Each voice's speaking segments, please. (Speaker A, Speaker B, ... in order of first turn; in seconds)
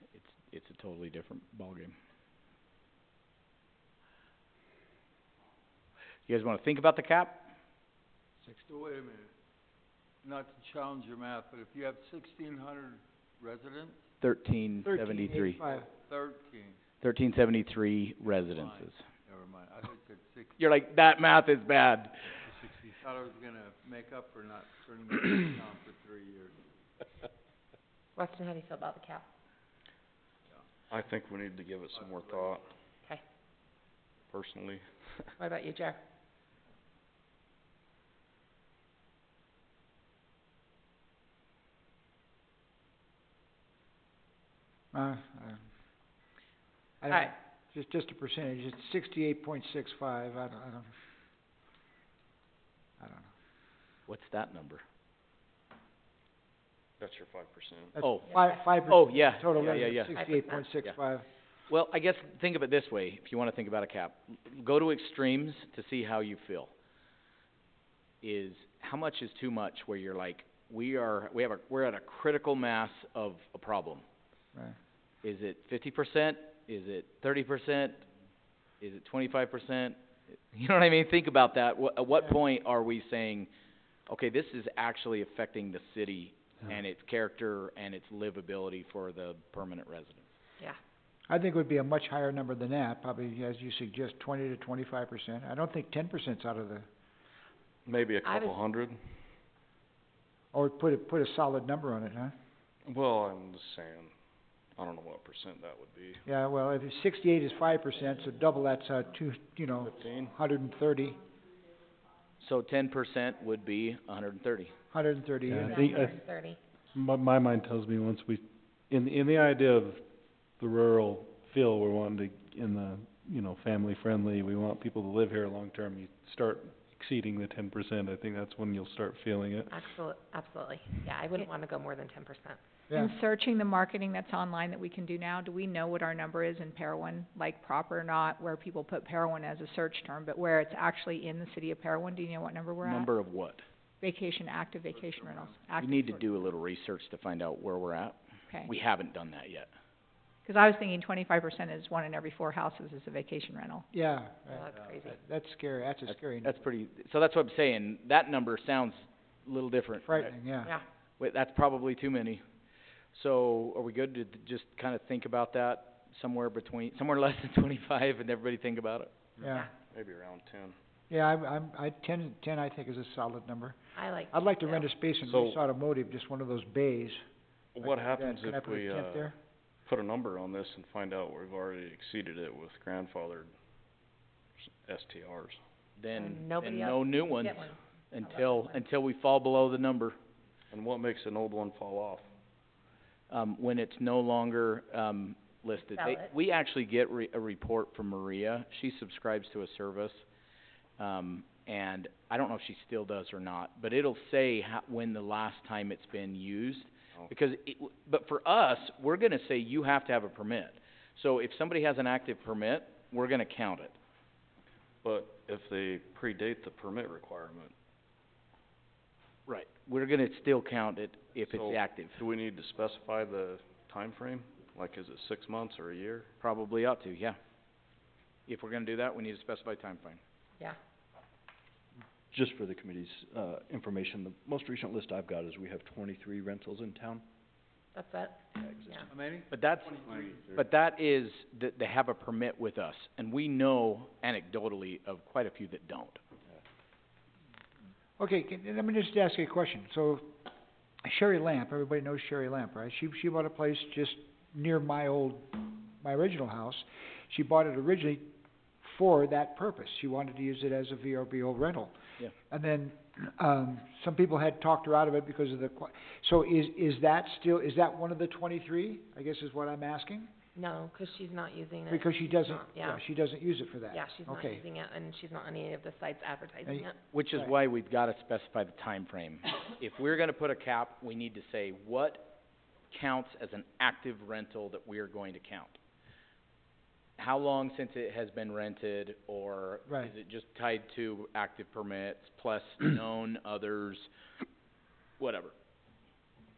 Speaker A: 0.1-1.9, 6.3-7.5, 14.2-15.6, 17.0-19.0, 20.6-22.4, 54.1-54.8, 58.0-60.2, 61.7-66.7, 68.2-74.0, 75.2-78.0, 78.8-80.0, 80.5-83.5, 84.1-90.3, 112.4-114.7, 142.8-143.6, 145.8-149.7, 156.1-160.3, 161.2-162.4, 163.1-169.1, 186.0-190.2, 193.3-200.2, 201.0-213.9, 219.5-222.2, 226.4-227.4, 228.5-230.2, 239.5-246.2, 277.1-282.4, 282.9-285.8, 287.2-294.1, 295.2-295.5
Speaker B: 8.7-9.3, 10.2-14.0, 15.7-16.8, 18.5-20.6, 22.4-27.0, 31.9-32.6, 144.9-145.6, 239.1-240.5
Speaker C: 14.8-15.9, 44.9-45.6, 47.0-50.9, 53.0-53.3, 58.0-61.2, 91.3-96.8, 100.5-102.3, 106.2-111.2, 114.9-115.8, 153.9-156.5, 160.1-160.7, 169.4-169.7, 171.1-173.8, 174.3-177.2, 177.8-179.3, 248.2-250.3, 251.0-258.2, 258.8-261.9, 262.5-270.3, 271.9-274.6, 276.6-277.5
Speaker D: 28.1-29.3, 35.4-36.0, 59.6-60.7, 98.2-98.6, 115.6-116.6, 129.7-132.6, 154.5-155.2, 173.9-174.8, 186.1-188.8, 195.9-196.3, 237.9-239.1, 270.5-273.0, 273.9-276.9
Speaker E: 30.9-32.6, 34.3-35.3, 57.0-58.0, 97.8-99.2, 102.8-104.1, 104.8-106.2, 109.8-110.4, 169.9-170.7, 175.2-175.6, 177.7-179.3, 179.8-183.5, 184.6-185.6, 190.7-192.2, 215.0-217.7, 221.4-226.3
Speaker F: 115.5-116.2, 116.9-120.0, 120.6-129.8
Speaker G: 132.9-143.1, 144.0-146.2, 150.4-153.8
Speaker H: 232.3-237.2, 238.6-239.0